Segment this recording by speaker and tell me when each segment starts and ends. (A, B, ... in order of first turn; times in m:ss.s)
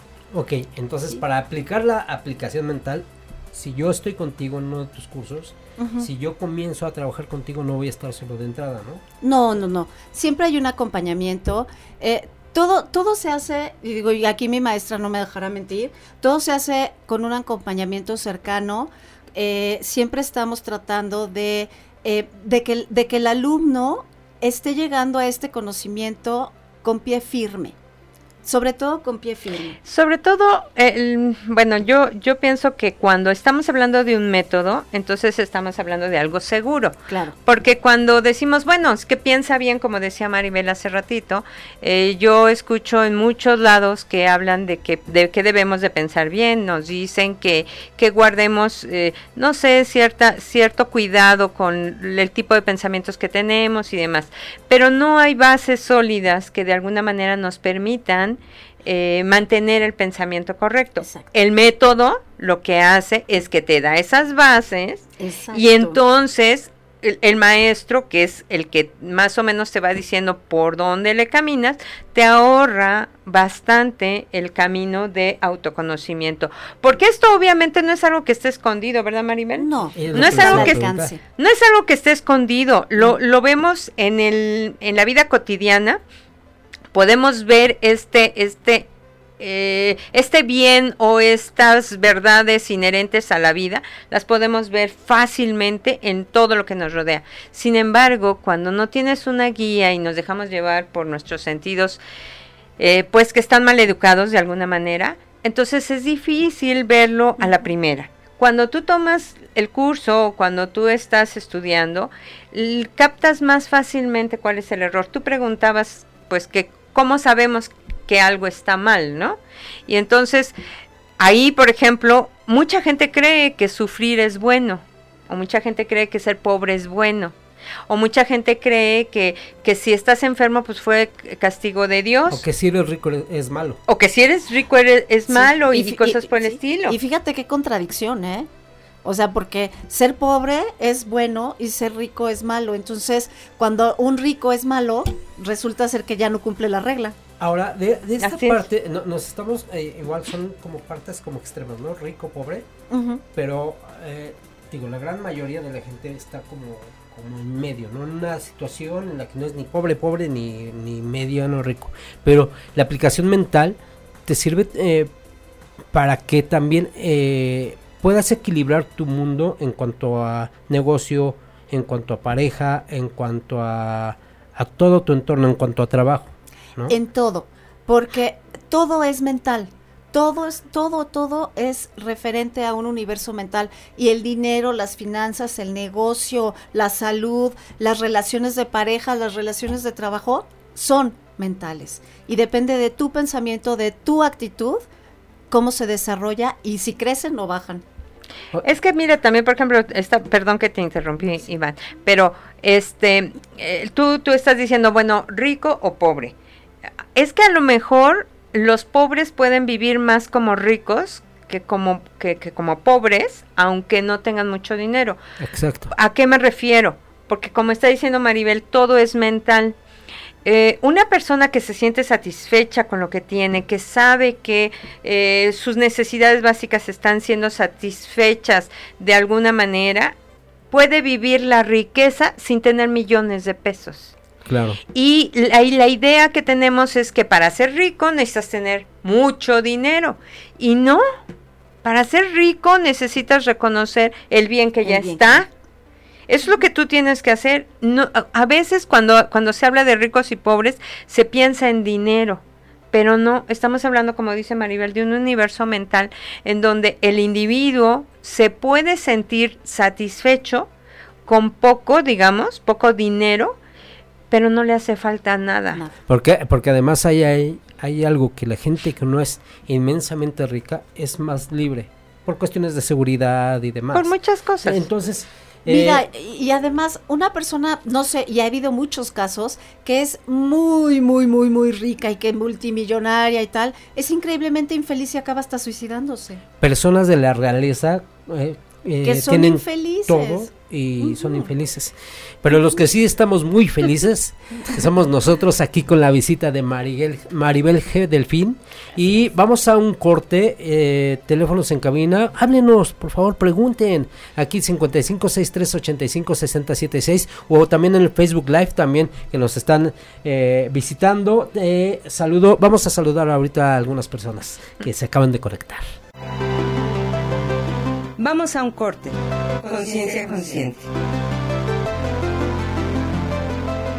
0:00.3-0:09.0 A
0:05.8-0:06.1 B
0:09.2-0:27.7 B
0:28.4-0:29.8 B
0:29.8-1:26.0 C
0:37.1-0:37.3 B
1:01.0-1:01.2 B
1:05.2-1:06.0 B
1:19.6-1:21.2 B
1:19.9-1:21.1 A
1:26.9-1:28.9 C
1:29.4-1:42.0 C
1:42.8-2:00.6 C
2:01.2-2:07.3 C
2:07.9-2:12.4 C
2:12.3-2:13.8 A
2:13.9-2:17.0 C
2:15.3-2:18.5 B
2:19.0-2:27.2 B
2:27.4-2:32.7 A
2:28.2-2:28.6 C
2:32.9-2:33.2 B
2:33.3-2:45.1 A
2:45.9-2:56.9 A
2:56.9-3:14.8 B
3:15.5-3:17.8 B
3:18.6-3:26.3 C
3:27.1-3:35.2 C
3:35.4-3:35.9 A
3:35.9-3:39.8 C
3:40.4-3:50.2 C
3:50.7-3:54.1 C
3:54.4-3:54.8 A
3:54.9-4:01.0 C
4:01.8-4:05.5 C
4:04.8-4:05.5 B
4:06.3-4:20.7 C
4:21.2-4:23.6 C
4:24.3-4:25.8 C
4:26.1-4:36.0 A
4:33.9-4:34.8 C
4:35.6-4:46.4 B
4:46.6-5:15.8 A
4:49.0-4:50.5 B
4:51.0-4:51.5 B
5:18.2-5:20.9 D